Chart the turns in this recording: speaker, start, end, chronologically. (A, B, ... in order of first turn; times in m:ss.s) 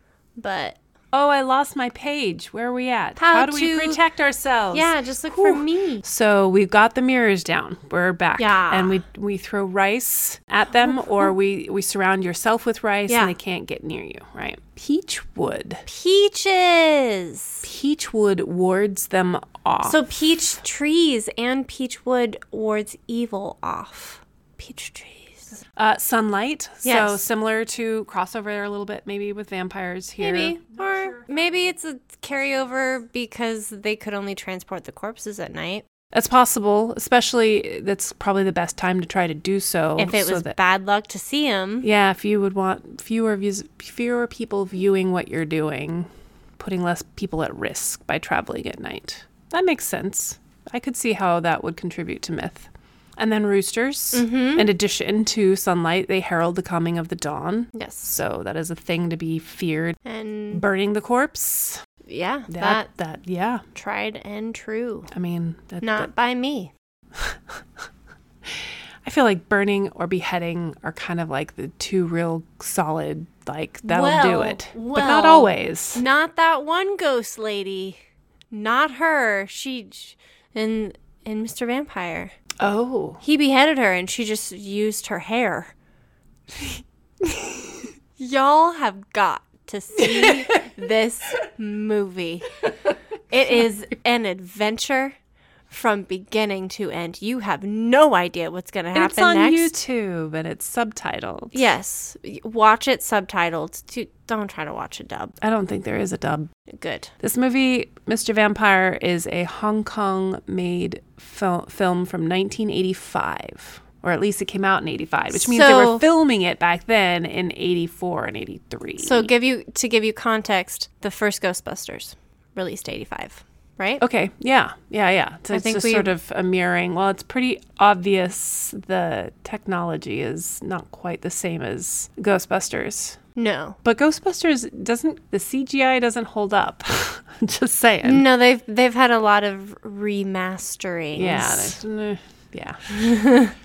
0:00.4-0:00.8 A
0:01.1-0:15.8 B
0:03.2-0:04.0 A
0:04.7-0:06.0 A
0:08.4-0:09.0 A
0:10.8-0:11.3 A
0:13.1-0:13.4 A
0:15.9-0:17.7 A
0:17.6-0:20.0 B
0:19.8-0:25.6 A
0:25.7-0:31.6 B
0:26.8-0:27.2 A
0:30.2-0:35.8 A
0:32.4-0:32.8 B
0:36.1-0:40.6 B
0:40.0-0:41.9 A
0:41.8-1:00.0 B
0:54.1-0:54.7 A
0:57.7-0:58.2 A
1:00.0-1:00.6 A
1:00.5-1:01.8 B
1:02.1-1:02.9 A
1:02.5-1:03.6 B
1:03.8-1:05.1 A
1:05.1-1:06.1 B
1:05.8-1:06.7 A
1:07.1-1:07.9 B
1:08.4-1:16.0 B
1:13.8-1:18.0 A
1:18.5-1:22.4 A
1:22.6-1:23.2 B
1:23.2-1:25.7 A
1:26.6-1:32.7 A
1:30.0-1:30.6 B
1:33.3-1:35.2 A
1:35.7-1:39.7 A
1:38.9-1:41.6 B
1:41.5-1:45.4 A
1:45.4-1:46.5 B
1:46.7-1:47.1 A
1:47.2-1:59.3 B
1:55.3-1:56.0 A
1:59.0-2:04.0 A
2:04.0-2:13.2 B
2:05.5-2:06.1 A
2:13.4-2:13.8 A
2:13.8-2:18.2 B
2:18.0-2:21.8 A
2:21.2-2:23.1 B
2:22.9-2:23.5 A